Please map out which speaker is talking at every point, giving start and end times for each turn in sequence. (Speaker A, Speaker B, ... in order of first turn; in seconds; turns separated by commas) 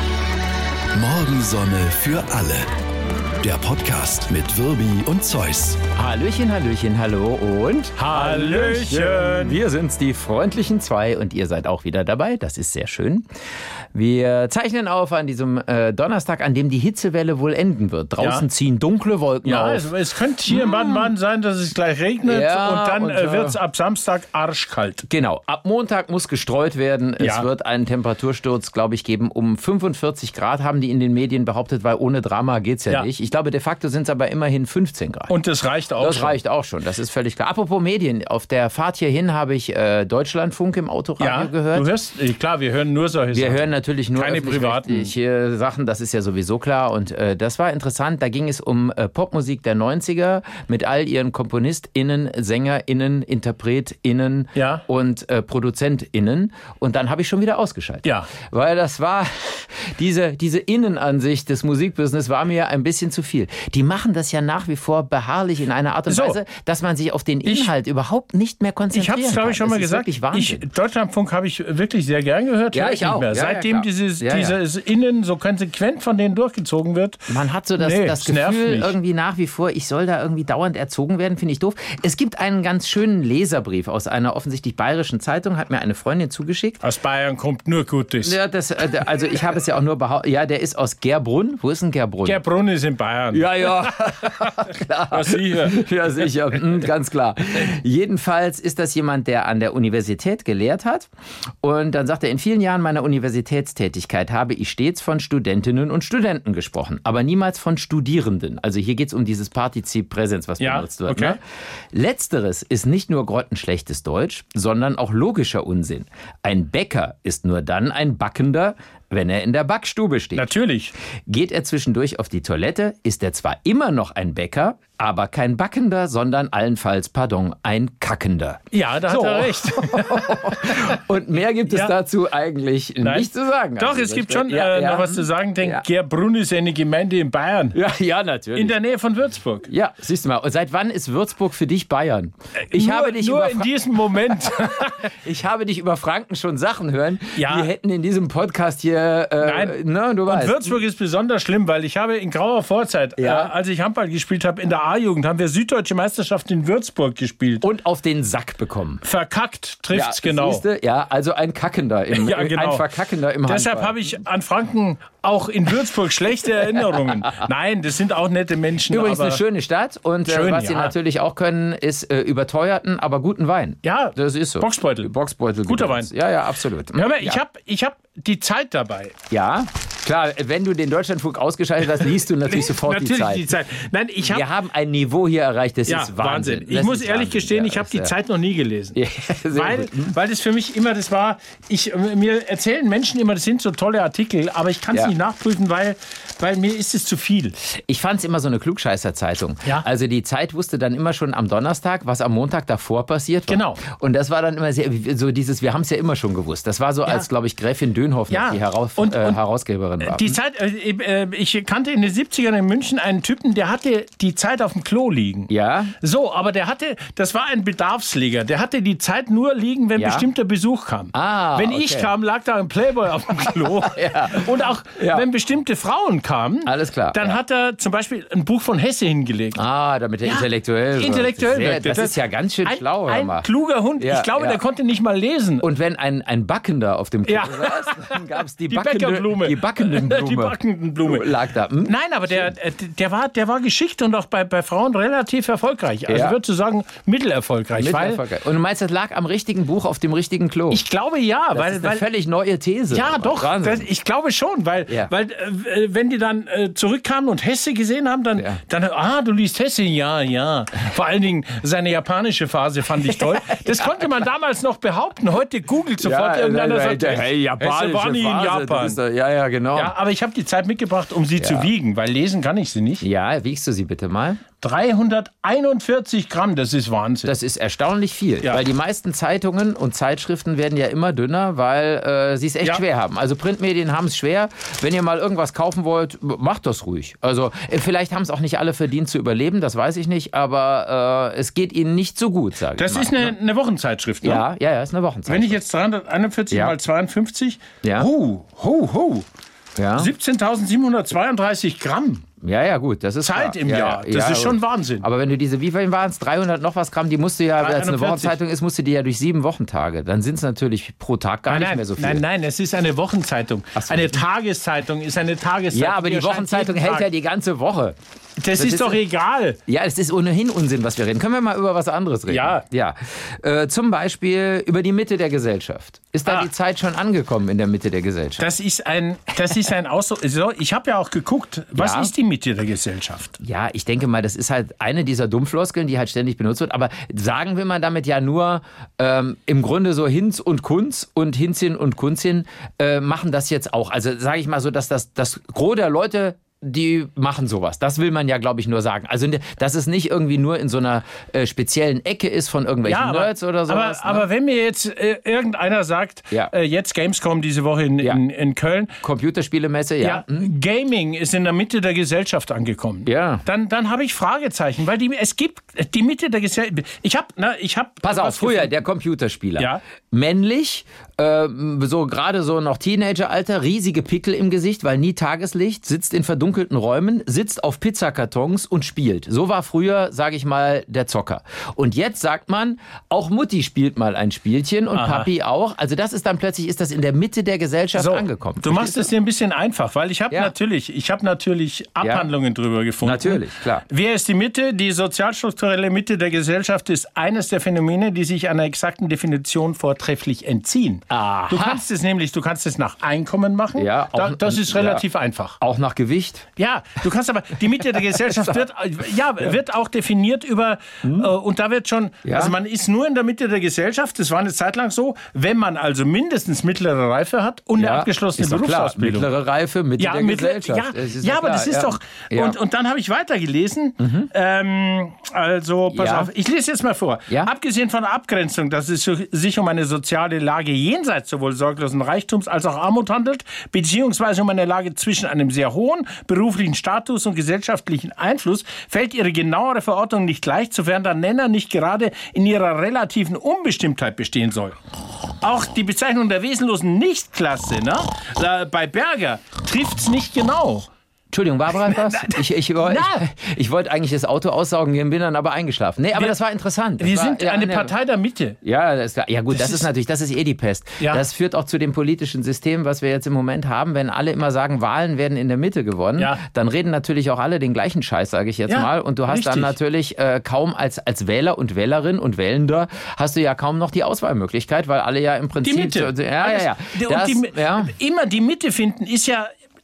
Speaker A: 0.9-2.7, Speaker A: 3.4-5.8, Speaker B: 5.9-13.2, Speaker C: 8.0-9.6, Speaker B: 13.9-19.9, Speaker C: 18.2-18.4, Speaker C: 19.4-25.1, Speaker B: 20.5-21.1, Speaker B: 22.2-23.6, Speaker B: 25.1-35.3, Speaker C: 27.2-27.5, Speaker C: 35.3-36.4, Speaker B: 36.0-41.9, Speaker C: 41.2-45.1, Speaker B: 43.3-70.6, Speaker C: 54.5-54.8, Speaker C: 58.0-58.3, Speaker C: 66.1-66.4, Speaker C: 67.4-67.7, Speaker C: 68.9-78.9, Speaker B: 72.7-74.6, Speaker B: 77.3-86.8, Speaker C: 86.8-88.4, Speaker B: 88.2-92.4, Speaker C: 92.2-96.3, Speaker B: 93.3-101.1, Speaker B: 101.6-111.4, Speaker C: 110.6-111.4, Speaker B: 111.9-120.5, Speaker C: 120.3-120.9, Speaker B: 121.3-135.8, Speaker C: 128.7-131.0, Speaker C: 131.7-131.9, Speaker C: 133.0-137.8, Speaker B: 137.7-138.8, Speaker C: 138.6-139.7, Speaker B: 139.7-150.8, Speaker C: 142.6-145.1, Speaker C: 147.3-147.7, Speaker C: 149.4-157.7, Speaker B: 153.2-153.5, Speaker B: 157.6-159.0, Speaker C: 159.0-160.6, Speaker B: 159.9-164.2, Speaker C: 162.1-162.8, Speaker C: 163.4-169.4, Speaker B: 168.9-177.4, Speaker C: 170.2-170.9, Speaker C: 173.8-175.1, Speaker C: 175.7-176.1, Speaker C: 176.9-179.1, Speaker B: 179.3-183.5, Speaker C: 182.5-184.5, Speaker B: 184.2-188.1, Speaker C: 185.9-189.0, Speaker B: 188.9-190.2, Speaker C: 189.5-197.6, Speaker B: 197.7-210.4, Speaker C: 203.5-203.8, Speaker C: 208.3-209.4, Speaker C: 210.0-229.6, Speaker B: 215.5-215.9, Speaker B: 219.9-220.2, Speaker B: 221.1-222.1, Speaker B: 223.3-225.2, Speaker B: 226.7-227.4, Speaker B: 229.5-233.5, Speaker C: 230.2-235.6, Speaker B: 234.0-234.6, Speaker B: 235.6-242.5, Speaker C: 237.2-248.2, Speaker B: 246.1-246.3, Speaker B: 247.8-250.8, Speaker C: 250.7-252.0, Speaker B: 251.5-253.9, Speaker C: 252.9-269.0, Speaker B: 263.0-264.1, Speaker B: 266.0-269.9, Speaker C: 269.7-273.0, Speaker B: 271.4-271.7, Speaker B: 273.0-274.4, Speaker C: 274.6-277.3, Speaker B: 277.2-293.3, Speaker C: 292.7-294.4, Speaker B: 294.2-295.6, Speaker C: 295.3-299.2, Speaker B: 296.5-296.7, Speaker B: 297.8-298.1, Speaker B: 299.8-300.1, Speaker C: 299.9-302.2, Speaker B: 302.4-312.2, Speaker C: 303.2-305.1, Speaker C: 307.6-308.4, Speaker C: 311.5-317.1, Speaker B: 313.8-314.2, Speaker B: 315.7-318.0, Speaker C: 318.4-319.6, Speaker B: 318.5-319.0, Speaker B: 319.7-328.4, Speaker C: 322.3-322.6, Speaker C: 328.4-333.3, Speaker B: 331.8-332.1, Speaker B: 333.4-354.2, Speaker C: 352.8-359.0, Speaker B: 359.0-360.5, Speaker C: 360.0-368.7, Speaker B: 363.1-363.4, Speaker B: 368.0-389.1, Speaker C: 384.9-385.3, Speaker C: 387.9-405.6, Speaker B: 392.0-392.3, Speaker B: 393.0-393.8, Speaker B: 401.1-401.8, Speaker B: 403.8-405.0, Speaker B: 405.6-406.5, Speaker C: 406.6-419.3, Speaker B: 408.2-408.6, Speaker B: 411.0-411.3, Speaker B: 412.2-412.5, Speaker B: 417.8-422.6, Speaker C: 420.0-444.8, Speaker B: 424.0-424.3, Speaker B: 425.9-426.3, Speaker C: 445.4-450.9, Speaker B: 451.3-457.9, Speaker C: 451.7-453.2, Speaker C: 457.0-458.6, Speaker B: 458.6-477.9, Speaker C: 459.5-459.9, Speaker C: 468.7-469.7, Speaker C: 475.6-479.5